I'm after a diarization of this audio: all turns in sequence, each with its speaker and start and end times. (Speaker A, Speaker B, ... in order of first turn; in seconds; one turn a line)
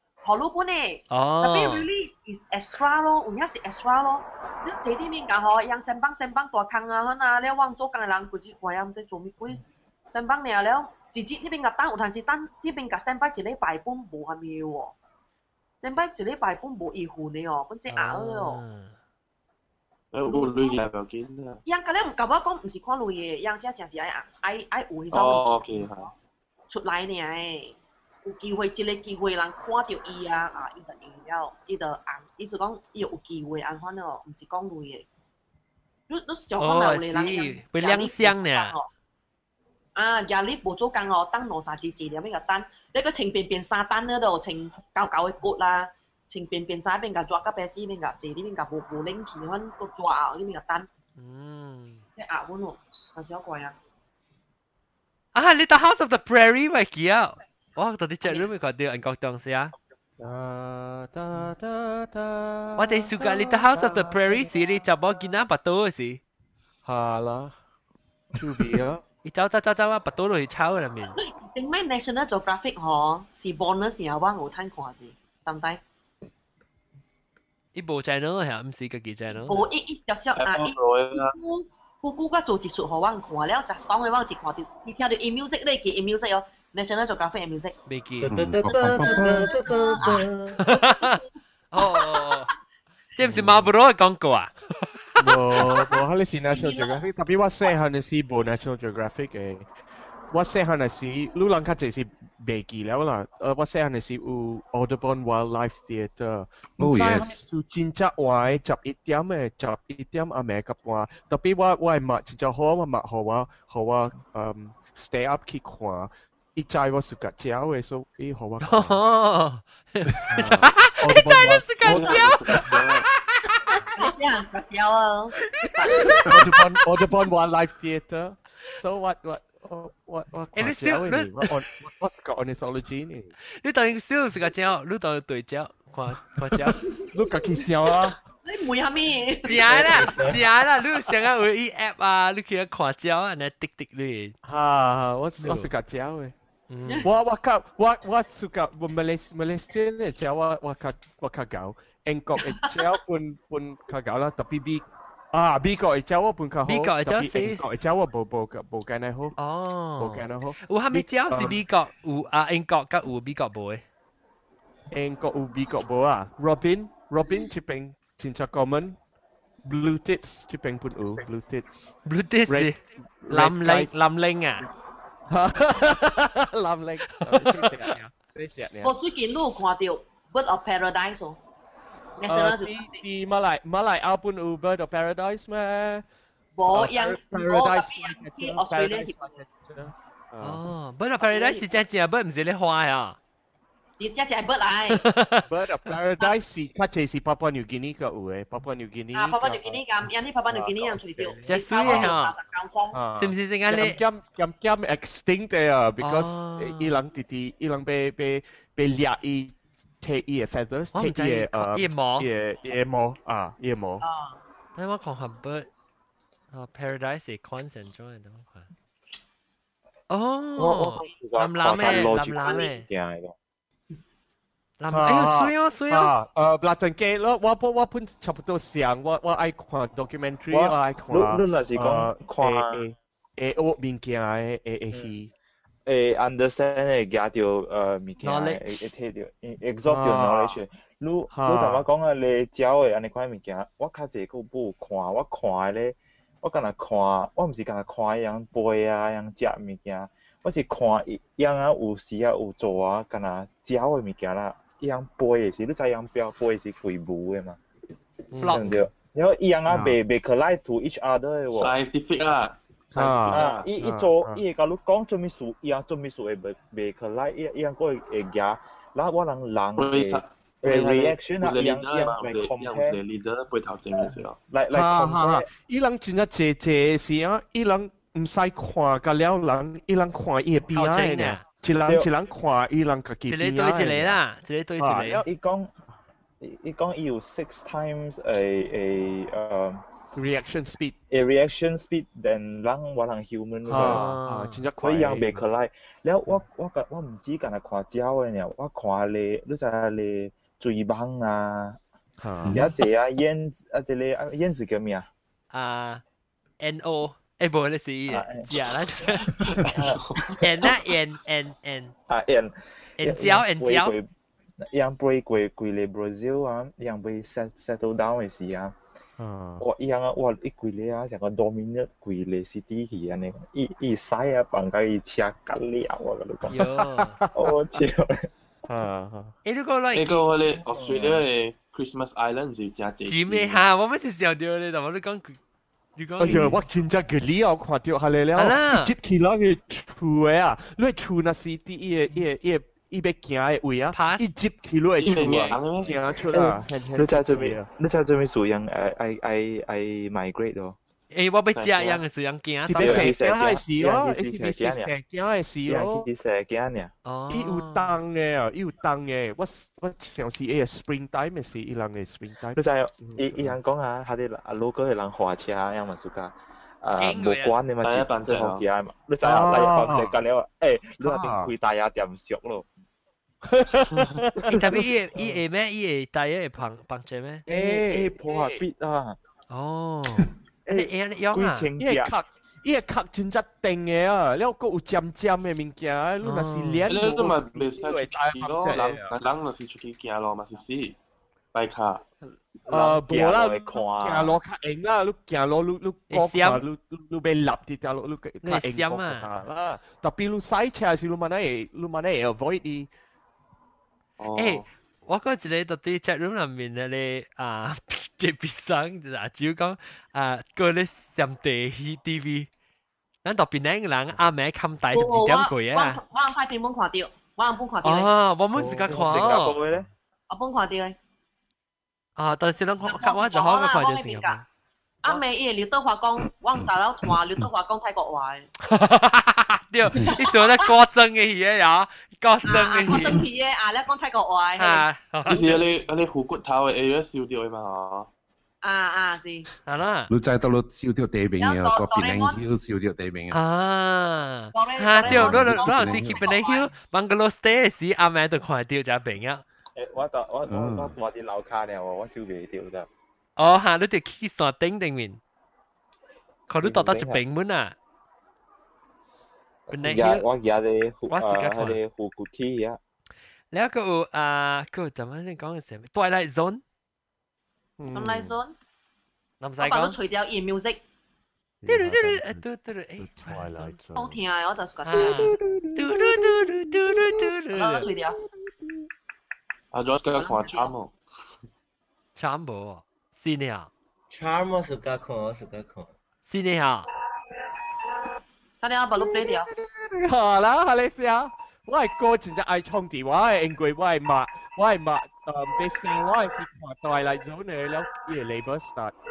Speaker A: 0.2-14.9
Speaker B: 1.1-1.9
Speaker A: 15.8-18.6
Speaker B: 17.9-18.9
Speaker C: 20.1-21.6
Speaker A: 20.3-20.8
Speaker A: 21.7-25.9
Speaker C: 25.1-26.1
Speaker A: 26.7-35.1
Speaker A: 36.1-38.9
Speaker B: 36.6-38.8
Speaker A: 40.0-50.9
Speaker B: 51.2-52.0
Speaker A: 52.2-53.8
Speaker B: 55.4-59.7
Speaker A: 58.2-58.5
Speaker D: 60.2-64.8
Speaker B: 62.8-66.2
Speaker D: 66.8-67.5
Speaker D: 68.3-69.0
Speaker B: 69.2-71.2
Speaker A: 71.1-75.8
Speaker B: 77.8-79.7
Speaker A: 79.4-87.8
Speaker C: 80.3-81.3
Speaker B: 87.9-88.3
Speaker E: 88.2-90.7
Speaker F: 88.3-89.6
Speaker A: 88.8-91.2
Speaker B: 90.6-91.2
Speaker B: 91.7-92.5
Speaker A: 91.8-92.3
Speaker B: 93.2-95.1
Speaker F: 93.2-93.7
Speaker D: 95.2-99.7
Speaker A: 96.5-97.1
Speaker D: 100.3-119.0
Speaker F: 106.8-107.4
Speaker B: 118.6-124.1
Speaker D: 120.3-122.3
Speaker C: 121.8-123.1
Speaker A: 124.0-126.4
Speaker B: 125.5-126.6
Speaker D: 126.0-133.3
Speaker B: 130.6-131.6
Speaker B: 133.5-136.8
Speaker A: 136.8-137.5
Speaker D: 137.1-138.2
Speaker A: 138.4-140.2
Speaker B: 139.4-144.3
Speaker E: 139.6-140.4
Speaker D: 144.4-146.3
Speaker B: 145.4-145.7
Speaker B: 146.7-147.1
Speaker D: 147.0-159.4
Speaker B: 156.7-157.7
Speaker B: 159.4-163.8
Speaker D: 160.0-161.6
Speaker D: 164.9-169.0
Speaker D: 169.6-171.9
Speaker B: 172.1-172.8
Speaker D: 172.5-173.9
Speaker B: 173.3-174.7
Speaker D: 175.3-178.9
Speaker B: 177.3-177.9
Speaker A: 178.8-181.4
Speaker A: 182.2-183.0
Speaker D: 182.3-186.0
Speaker A: 186.6-189.3
Speaker D: 186.7-190.7
Speaker B: 190.4-193.2
Speaker A: 191.2-191.7
Speaker A: 194.0-195.0
Speaker B: 194.9-195.5
Speaker D: 195.5-199.9
Speaker A: 199.1-203.0
Speaker D: 200.5-202.2
Speaker B: 201.5-202.4
Speaker D: 202.9-214.0
Speaker B: 203.2-204.0
Speaker B: 206.0-207.0
Speaker B: 210.9-212.3
Speaker A: 214.0-214.4
Speaker B: 214.8-215.7
Speaker B: 216.5-218.7
Speaker B: 220.1-222.9
Speaker G: 220.6-223.3
Speaker A: 221.8-222.6
Speaker B: 224.8-226.1
Speaker D: 224.9-235.3
Speaker G: 230.5-232.8
Speaker G: 235.9-257.6
Speaker B: 238.2-238.9
Speaker D: 239.8-240.6
Speaker D: 241.3-241.8
Speaker B: 258.3-258.7
Speaker G: 258.4-261.8
Speaker D: 258.4-258.8
Speaker D: 259.7-260.0
Speaker C: 261.5-263.5
Speaker D: 262.9-264.4
Speaker G: 263.3-273.0
Speaker C: 269.8-274.4
Speaker G: 274.5-275.5
Speaker D: 274.7-284.2
Speaker B: 280.7-281.4
Speaker B: 283.3-285.2
Speaker D: 284.8-285.3
Speaker G: 285.2-285.7
Speaker G: 286.4-289.8
Speaker D: 290.1-291.0
Speaker G: 291.1-294.2
Speaker D: 293.6-295.4
Speaker B: 293.8-294.6
Speaker G: 294.8-301.8
Speaker D: 302.2-302.7
Speaker G: 302.5-305.1
Speaker B: 305.5-306.0
Speaker B: 306.6-309.9
Speaker G: 308.1-309.0
Speaker C: 309.5-310.4
Speaker G: 309.8-310.7
Speaker B: 310.4-311.9
Speaker G: 312.1-314.1
Speaker B: 313.0-313.9
Speaker G: 314.6-318.8
Speaker D: 319.2-319.6
Speaker G: 319.6-326.6
Speaker B: 326.5-327.2
Speaker D: 327.1-327.5
Speaker G: 327.4-328.3
Speaker D: 328.7-329.3
Speaker B: 329.4-330.3
Speaker C: 329.9-333.6
Speaker G: 330.7-331.2
Speaker B: 333.1-335.4
Speaker B: 336.0-336.6
Speaker D: 336.2-347.7
Speaker G: 336.2-336.5
Speaker B: 338.4-338.9
Speaker B: 343.9-344.2
Speaker C: 345.0-346.3
Speaker G: 346.3-350.8
Speaker B: 351.1-353.1
Speaker C: 351.6-352.0
Speaker D: 352.6-356.1
Speaker G: 352.8-354.9
Speaker G: 355.7-356.9
Speaker B: 357.1-358.0
Speaker D: 357.3-363.6
Speaker G: 362.6-372.7
Speaker B: 367.0-367.6
Speaker C: 367.8-368.7
Speaker D: 369.2-370.2
Speaker D: 371.0-371.5
Speaker D: 373.5-375.3
Speaker B: 374.5-377.4
Speaker D: 377.5-378.6
Speaker G: 377.5-379.2
Speaker B: 379.5-381.7
Speaker G: 380.7-382.1
Speaker D: 381.8-389.1
Speaker B: 386.2-386.9
Speaker C: 386.9-391.0
Speaker C: 391.5-392.1
Speaker G: 392.7-394.4
Speaker D: 392.7-402.9
Speaker B: 396.1-396.6
Speaker B: 398.4-399.3
Speaker C: 404.2-404.7
Speaker B: 404.4-412.5
Speaker B: 413.2-416.0
Speaker A: 414.9-418.1
Speaker B: 417.8-419.6
Speaker G: 418.6-419.9
Speaker A: 420.3-421.0
Speaker B: 422.2-424.4
Speaker A: 422.8-424.4
Speaker A: 425.0-428.5
Speaker B: 428.6-433.2
Speaker A: 430.1-430.7
Speaker A: 432.4-434.9
Speaker B: 434.6-435.6
Speaker C: 435.3-438.1
Speaker A: 438.6-439.5
Speaker B: 439.7-440.1
Speaker F: 440.1-443.4
Speaker A: 441.4-442.4
Speaker B: 443.3-449.4
Speaker A: 444.6-446.7
Speaker F: 445.0-446.2
Speaker G: 449.8-452.9
Speaker F: 450.5-451.0
Speaker B: 453.4-455.2
Speaker B: 456.5-457.8
Speaker G: 456.6-457.2
Speaker G: 459.7-462.8
Speaker B: 459.7-460.2
Speaker B: 461.1-461.8
Speaker B: 463.5-466.6
Speaker D: 467.8-468.4
Speaker A: 467.9-468.6
Speaker B: 469.4-470.0
Speaker A: 469.6-470.8
Speaker D: 471.6-472.5
Speaker B: 471.7-473.8
Speaker D: 473.0-474.2
Speaker A: 473.9-475.3
Speaker B: 474.8-477.9
Speaker D: 474.9-477.3
Speaker A: 477.5-478.2
Speaker D: 477.9-478.9
Speaker C: 479.7-480.9
Speaker A: 480.1-480.7
Speaker B: 482.2-483.7
Speaker E: 484.1-485.9
Speaker B: 486.3-486.9
Speaker A: 488.6-489.5
Speaker D: 489.0-498.9